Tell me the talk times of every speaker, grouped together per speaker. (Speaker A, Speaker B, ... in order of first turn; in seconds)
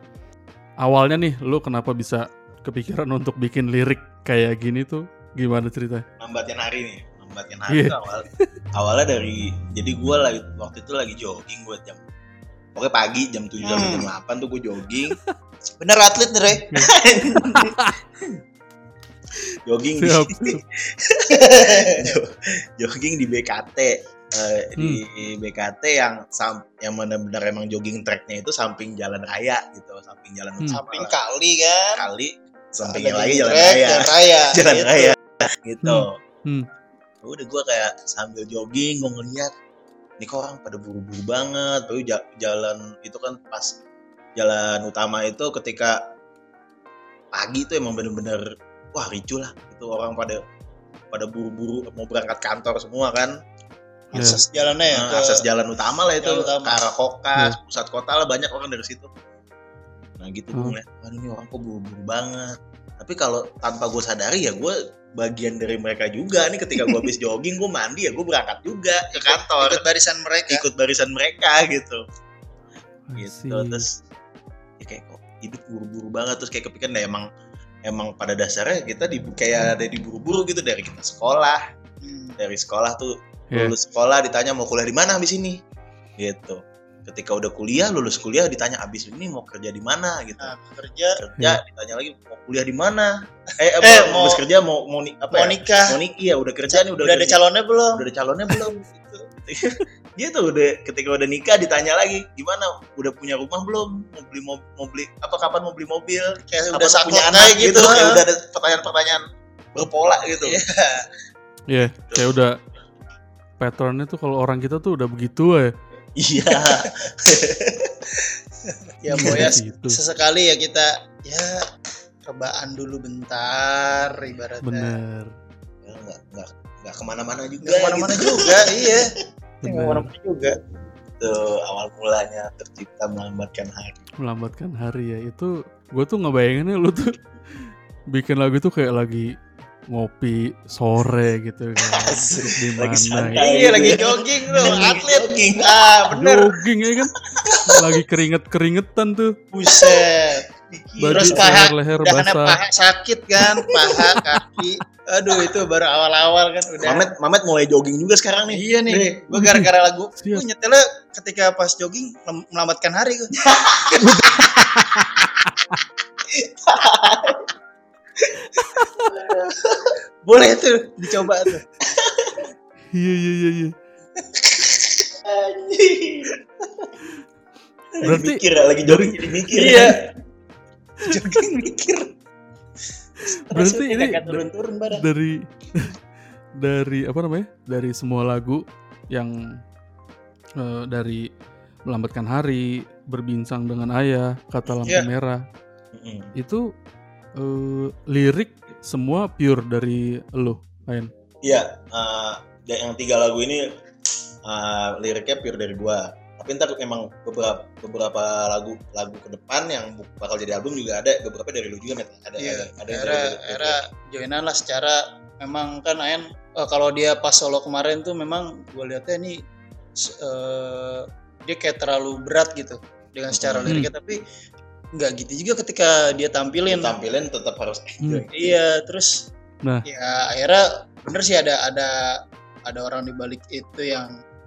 Speaker A: 0.8-6.0, 7.7-8.4, 16.7-17.9, 20.0-20.6, 35.8-36.7, 73.1-73.8, 111.7-112.6, 113.6-115.7, 119.1-120.0, 124.6-125.3, 129.6-130.1, 134.2-139.3, 139.9-143.4, 146.1-149.4, 151.0-152.6, 159.3-159.7, 160.2-160.4, 164.1-165.1, 168.8-169.0, 172.9-173.7, 178.0-179.8, 183.3-186.0, 186.6-188.6, 190.6-191.2, 191.9-195.4, 196.4-196.7, 197.4-201.1
Speaker B: 6.2-12.0, 12.8-15.2, 16.8-18.4, 19.7-31.1, 32.0-36.2, 37.2-39.5, 40.2-43.8, 44.4-46.0, 47.3-50.4, 51.1-53.4, 54.1-59.1, 60.2-69.8, 70.5-72.0, 73.2-74.0, 74.8-77.3, 77.9-81.6, 82.4-85.6, 86.2-90.5, 91.2-97.4, 97.9-98.8, 99.5-110.6, 116.2-118.0, 119.2-119.5, 125.8-129.0, 131.2-134.1, 141.8-146.5, 147.2-148.1, 149.7-150.1, 150.7-151.6, 153.6-154.0, 156.8-159.2, 163.4-164.1, 166.3-167.5, 169.1-170.0, 171.8-172.5, 175.0-176.9, 178.0-180.0, 181.1-181.8, 183.5-185.0, 195.9-196.3, 201.4-203.7, 204.5-213.8, 223.3-223.8, 226.7-228.6
Speaker C: 13.6-14.1, 15.8-16.7, 21.3-22.1, 30.7-32.1, 32.8-35.2, 54.1-55.5, 56.2-56.8, 69.1-70.7, 82.0-82.4, 90.4-91.2, 93.8-94.4, 95.3-96.0, 96.7-99.2, 106.4-108.2, 110.5-111.1, 116.5-116.8, 118.9-121.6, 122.2-125.0, 127.6-129.1, 129.6-130.6, 143.3-146.3, 149.5-150.4, 151.1-157.0, 158.5-164.4, 170.3-171.6, 179.5-180.0, 181.2-182.0, 212.4-219.4, 220.0-224.2, 225.0-226.9, 228.3-229.3, 229.9-234.1